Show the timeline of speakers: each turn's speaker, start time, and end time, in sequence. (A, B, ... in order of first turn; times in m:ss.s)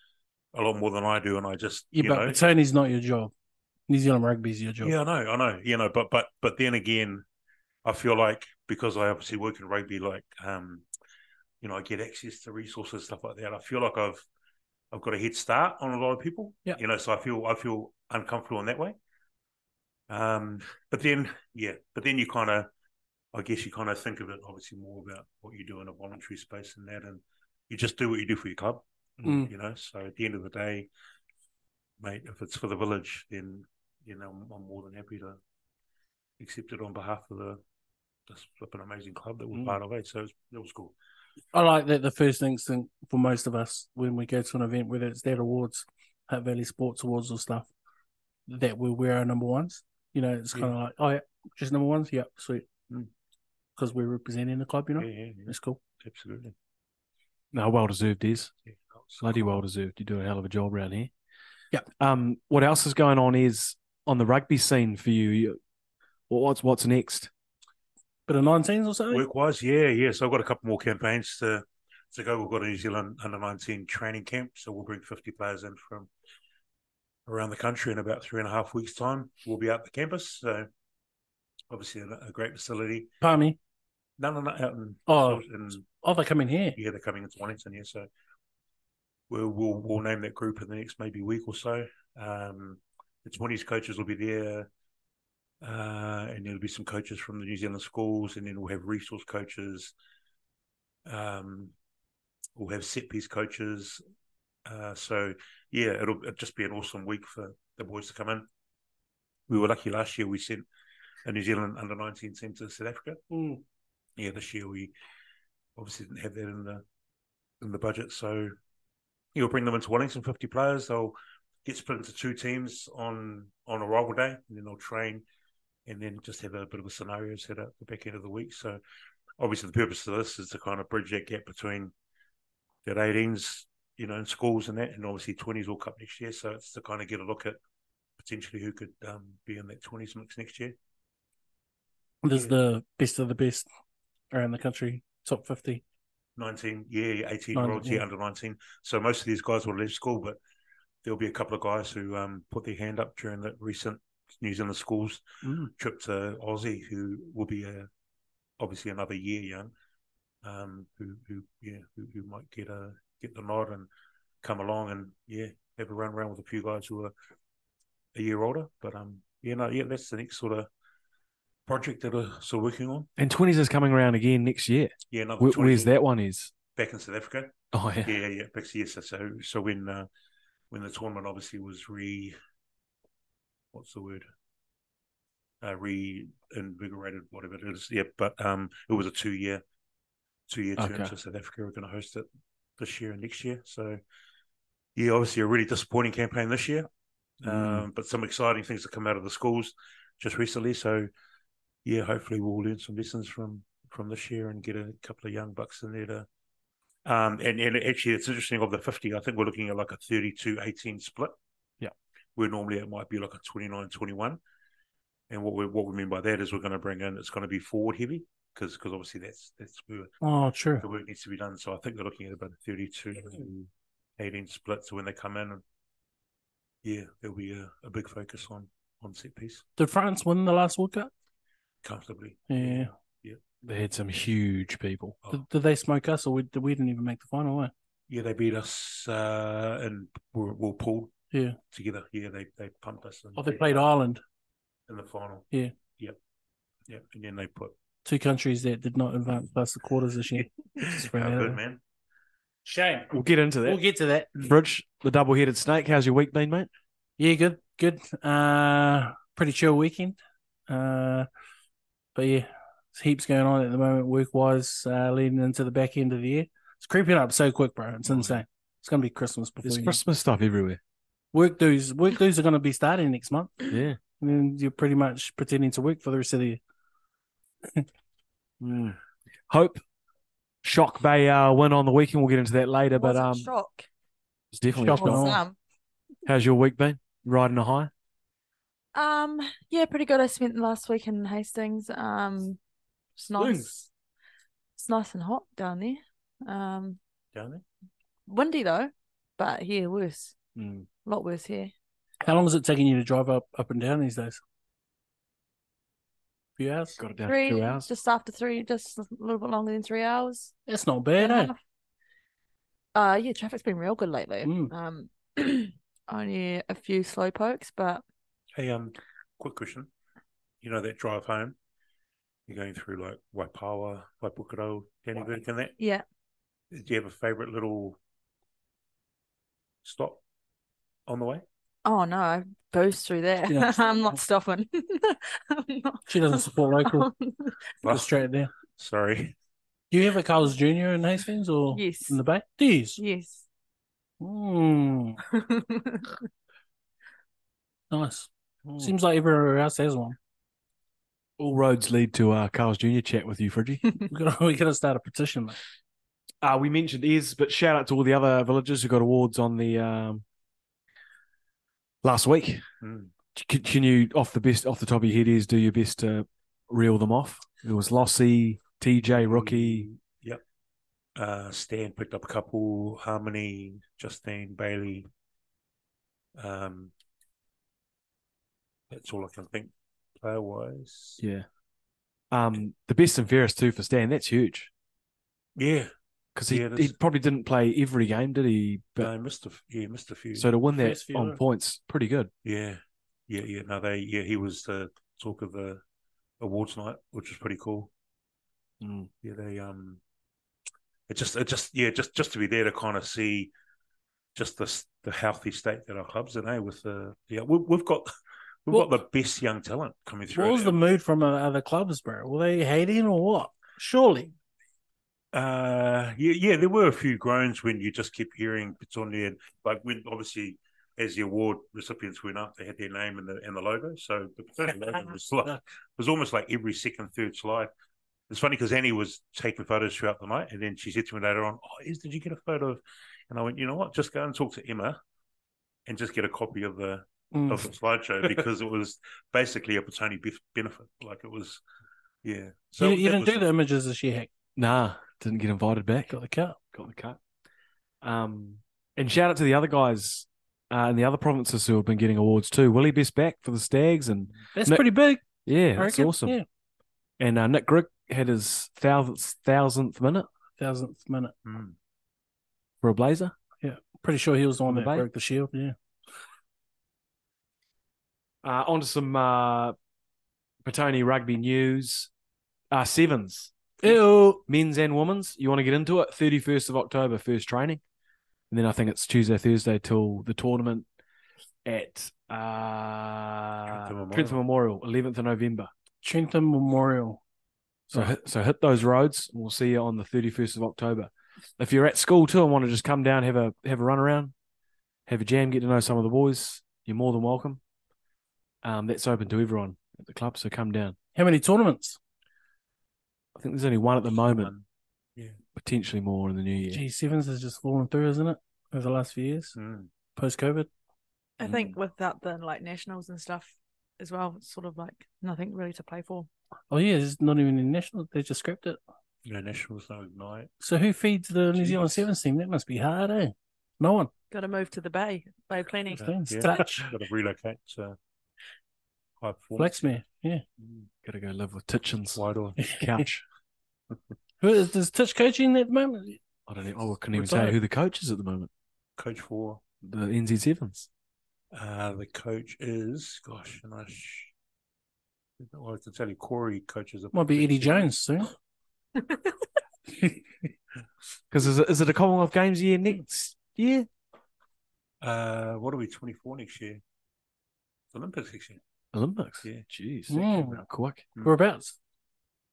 0:00.5-0:02.4 A
0:01.9-0:03.3 B
0:03.9-0:04.9 B
0:04.8-0:07.2 A
0:07.8-0:10.8 A
0:11.6-0:14.2 A
0:14.9-0:19.0 A
0:20.1-0:22.7 A
0:23.3-0:30.9 A
0:32.0-0:35.4 A
0:36.4-0:37.6 A
0:38.3-0:40.9 A
0:39.5-0:39.8 C
0:41.5-0:47.7 B
0:48.5-0:52.7 B
0:53.8-0:55.8 B
0:55.0-0:56.5 A
0:57.5-0:58.5 C
0:59.1-0:59.5 A
0:59.2-1:01.1 C
1:02.0-1:05.6 C
1:06.3-1:07.3 C
1:08.3-1:09.2 B
1:09.1-1:16.1 A
1:17.2-1:20.7 A
1:21.7-1:23.1 A
1:23.2-1:23.6 B
1:24.2-1:25.8 A
1:25.1-1:25.4 B
1:26.0-1:26.8 B
1:26.8-1:28.1 A
1:29.3-1:34.7 A
1:35.6-1:39.9 A
1:41.0-1:41.7 A
1:42.6-1:44.0 A
1:44.6-1:48.5 A
1:49.5-1:50.6 A
1:51.2-1:53.2 A
1:53.3-1:53.6 B
1:54.2-1:54.9 A
1:55.8-1:56.8 A
1:57.6-1:58.5 A
1:59.3-2:05.2 A
2:05.8-2:08.8 A
2:09.4-2:11.9 A
2:12.8-2:17.6 A
2:18.2-2:20.7 A
2:22.2-2:23.6 B
2:24.3-2:25.8 B
2:26.4-2:30.4 A
2:27.5-2:28.0 B
2:31.0-2:37.9 A
2:35.4-2:35.7 B
2:38.6-2:39.7 A
2:40.4-2:43.9 A
2:44.4-2:47.1 A
2:48.1-2:50.7 A
2:51.7-2:53.1 A
2:53.2-2:56.5 C
2:55.1-2:55.9 A
2:56.8-3:00.1 A
2:57.7-2:58.2 C
3:00.7-3:02.4 A
3:03.7-3:04.2 A
3:05.6-3:09.6 A
3:10.5-3:12.3 A
3:10.8-3:11.1 C
3:12.8-3:14.0 A
3:15.0-3:16.9 A
3:17.4-3:21.1 A
3:17.4-3:17.8 C
3:21.8-3:26.3 A
3:27.0-3:31.3 A
3:32.4-3:34.4 A
3:35.3-3:40.1 A
3:40.2-3:40.8 B
3:40.8-3:45.6 A
3:46.8-3:49.6 A
3:49.8-3:51.1 B
3:51.8-3:53.4 A
3:52.5-3:52.9 B
3:53.6-3:55.2 C
3:55.3-3:57.7 B
3:58.1-4:01.1 A
4:01.3-4:01.6 B
4:01.7-4:03.8 A
4:03.4-4:04.2 B
4:04.9-4:05.5 A
4:06.9-4:07.7 A
4:08.0-4:11.6 B
4:10.8-4:11.8 A
4:12.6-4:14.3 B
4:13.1-4:13.8 C
4:14.3-4:16.7 C
4:17.2-4:21.3 B
4:22.1-4:30.0 B
4:28.1-4:28.4 C
4:29.6-4:30.8 C
4:31.3-4:36.6 B
4:33.7-4:34.0 C
4:38.6-4:39.0 C
4:39.5-4:39.8 C
4:40.6-4:43.5 C
4:42.9-4:43.9 D
4:44.5-4:45.4 C
4:44.8-4:45.4 B
4:44.9-4:45.6 D
4:46.2-4:47.9 C
4:48.9-4:52.6 D
4:53.2-4:53.8 D
4:53.4-4:53.8 C
4:54.8-4:57.0 D
4:57.3-4:57.6 A
4:58.3-5:00.4 D
5:00.6-5:00.9 C
5:01.0-5:01.7 D
5:02.2-5:04.4 B
5:06.6-5:07.0 B
5:07.0-5:07.9 C
5:07.2-5:10.5 D
5:10.7-5:11.5 B
5:11.2-5:11.6 D
5:12.9-5:18.0 D
5:14.4-5:14.7 B
5:18.5-5:19.9 A
5:20.6-5:21.6 A
5:22.5-5:25.7 A
5:25.8-5:26.0 D
5:26.7-5:28.0 A
5:29.8-5:30.2 A
5:31.1-5:31.4 A
5:31.8-5:37.6 D
5:33.5-5:33.8 B
5:36.1-5:37.1 B
5:37.8-5:38.1 A
5:37.8-5:38.5 B
5:38.7-5:39.3 A
5:39.9-5:43.0 B
5:41.7-5:42.2 D
5:43.0-5:43.4 D
5:44.2-5:45.2 B
5:45.3-5:46.1 D
5:47.9-5:48.3 B
5:48.8-5:50.2 B
5:51.4-5:53.8 C
5:54.1-5:55.6 B
5:56.4-6:00.2 C
6:02.0-6:02.6 C
6:02.8-6:03.1 A
6:03.3-6:09.9 C
6:09.2-6:10.4 A
6:11.2-6:15.1 A
6:16.4-6:16.9 A
6:18.9-6:21.2 A
6:21.2-6:21.5 C
6:22.3-6:24.7 C
6:25.6-6:25.9 A
6:26.4-6:29.1 C
6:26.5-6:26.9 A
6:29.0-6:30.5 A
6:30.4-6:32.3 C
6:30.8-6:31.4 B
6:32.4-6:35.8 A
6:36.4-6:37.9 A
6:38.8-6:39.1 C
6:39.2-6:40.0 A
6:41.1-6:43.5 A
6:44.3-6:48.1 A
6:48.6-6:50.8 A
6:50.3-6:54.3 B
6:55.3-7:07.7 A
7:08.3-7:15.0 A
7:15.8-7:21.6 A
7:17.3-7:17.7 B
7:22.2-7:23.5 A
7:22.8-7:24.3 B
7:24.6-7:26.1 C
7:26.1-7:26.6 B
7:26.7-7:27.2 C
7:28.0-7:34.9 C
7:34.5-7:35.2 B
7:35.4-7:36.4 C
7:35.7-7:36.4 B
7:37.2-7:40.3 C
7:40.6-7:41.3 B
7:41.4-7:41.8 A
7:42.8-7:43.3 C
7:43.6-7:45.7 B
7:44.7-7:45.1 C
7:48.4-7:49.8 C
7:50.6-7:52.1 C
7:52.7-7:57.8 C
7:53.8-7:54.4 B
7:58.5-8:00.8 C
8:01.6-8:05.7 C
8:03.7-8:04.4 A
8:06.0-8:07.2 B
8:07.9-8:14.3 C
8:15.1-8:17.6 C
8:18.6-8:21.0 C
8:21.2-8:22.0 B
8:23.4-8:24.5 C
8:24.2-8:24.6 A
8:25.5-8:26.8 C
8:26.7-8:29.6 B
8:29.6-8:29.9 A
8:30.2-8:30.7 B
8:31.4-8:36.3 D
8:31.4-8:31.8 C
8:36.7-8:38.8 B
8:39.2-8:40.5 A
8:40.6-8:44.1 B
8:41.6-8:42.0 A
8:44.3-8:46.1 D
8:46.0-8:46.9 B
8:46.0-8:48.0 A
8:49.2-8:49.9 A
8:49.6-8:50.4 B
8:50.6-8:50.9 A
8:51.0-8:53.2 C
8:52.1-8:52.7 A
8:54.4-8:56.2 B
8:56.5-8:58.5 C
8:57.1-8:57.6 B
8:59.0-8:59.6 A
8:59.8-9:00.9 C
9:01.5-9:04.3 A
9:05.4-9:07.9 A
9:07.1-9:08.3 B
9:11.3-9:13.9 C
9:15.0-9:16.8 A
9:17.9-9:18.6 A
9:18.9-9:21.0 C
9:20.1-9:20.6 B
9:21.2-9:21.7 B